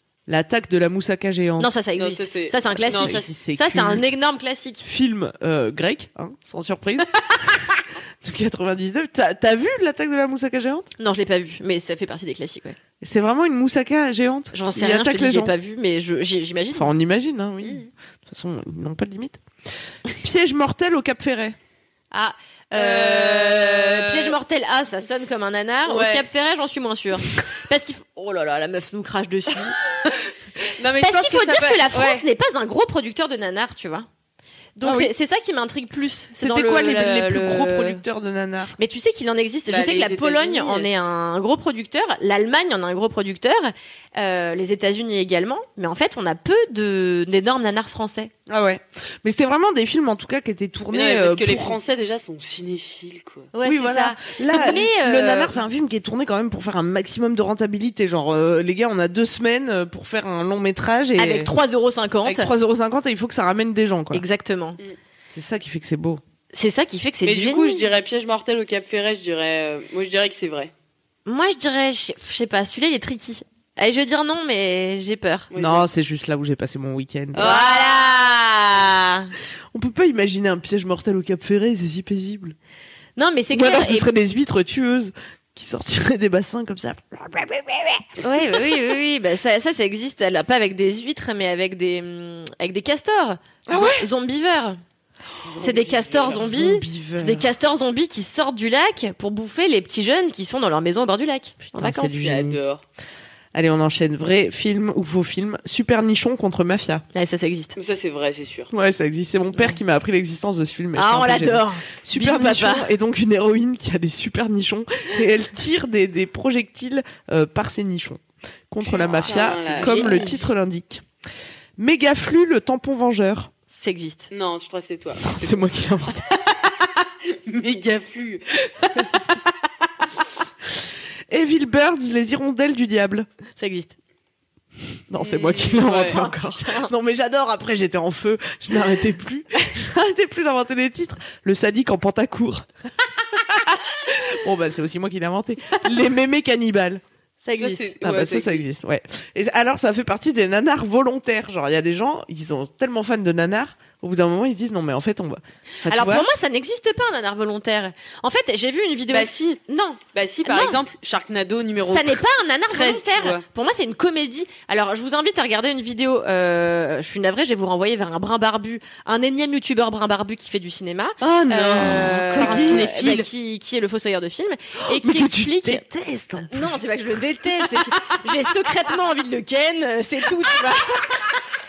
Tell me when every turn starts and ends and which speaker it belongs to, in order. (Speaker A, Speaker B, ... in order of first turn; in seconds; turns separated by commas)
Speaker A: 0.3-1.7, Speaker B: 1.6-4.8, Speaker C: 1.9-3.3, Speaker A: 2.9-4.1, Speaker A: 4.8-10.9, Speaker B: 11.0-12.8, Speaker A: 13.0-15.5, Speaker B: 14.5-16.9, Speaker A: 16.7-19.4, Speaker C: 17.6-17.9, Speaker A: 20.1-21.6, Speaker B: 22.1-29.8, Speaker C: 22.7-24.4, Speaker C: 25.9-26.3, Speaker C: 30.7-32.3, Speaker B: 31.0-34.1, Speaker B: 34.8-38.0, Speaker A: 34.8-35.1, Speaker A: 36.4-38.8, Speaker B: 38.8-48.3, Speaker C: 39.7-40.9, Speaker A: 48.5-51.8, Speaker C: 50.9-53.5, Speaker B: 53.5-55.6, Speaker A: 53.6-61.5, Speaker B: 61.2-62.5, Speaker A: 62.2-64.2, Speaker B: 64.1-64.8, Speaker A: 65.3-66.2, Speaker B: 66.5-67.9, Speaker C: 67.2-70.7, Speaker B: 71.3-75.5, Speaker C: 75.5-75.9, Speaker A: 75.5-77.5, Speaker C: 77.3-78.1, Speaker B: 77.4-79.3, Speaker A: 79.7-82.6, Speaker B: 83.2-84.1, Speaker A: 83.5-88.1, Speaker B: 88.2-94.8, Speaker A: 93.7-94.1, Speaker C: 95.4-96.5, Speaker B: 95.6-102.1, Speaker A: 96.3-97.5, Speaker A: 101.6-102.6, Speaker C: 102.0-102.8, Speaker A: 103.5-107.0, Speaker B: 107.1-107.7, Speaker C: 107.8-108.7, Speaker A: 108.7-121.0, Speaker B: 111.0-112.9, Speaker C: 119.0-120.3, Speaker B: 119.1-120.5, Speaker A: 121.8-123.5, Speaker B: 123.7-124.3, Speaker C: 124.3-125.7, Speaker A: 125.2-126.3, Speaker C: 127.3-129.1, Speaker A: 131.3-133.3, Speaker B: 133.6-133.9, Speaker A: 135.1-142.7, Speaker C: 135.2-136.2, Speaker B: 135.9-136.9, Speaker A: 143.4-147.0, Speaker B: 147.4-147.8, Speaker C: 147.6-148.7, Speaker A: 148.0-156.3, Speaker B: 155.9-160.8, Speaker C: 159.1-159.6, Speaker C: 160.1-163.4, Speaker B: 161.8-175.8, Speaker C: 171.2-173.3, Speaker A: 171.8-172.9, Speaker A: 174.8-176.9, Speaker B: 176.5-181.4, Speaker A: 177.6-178.1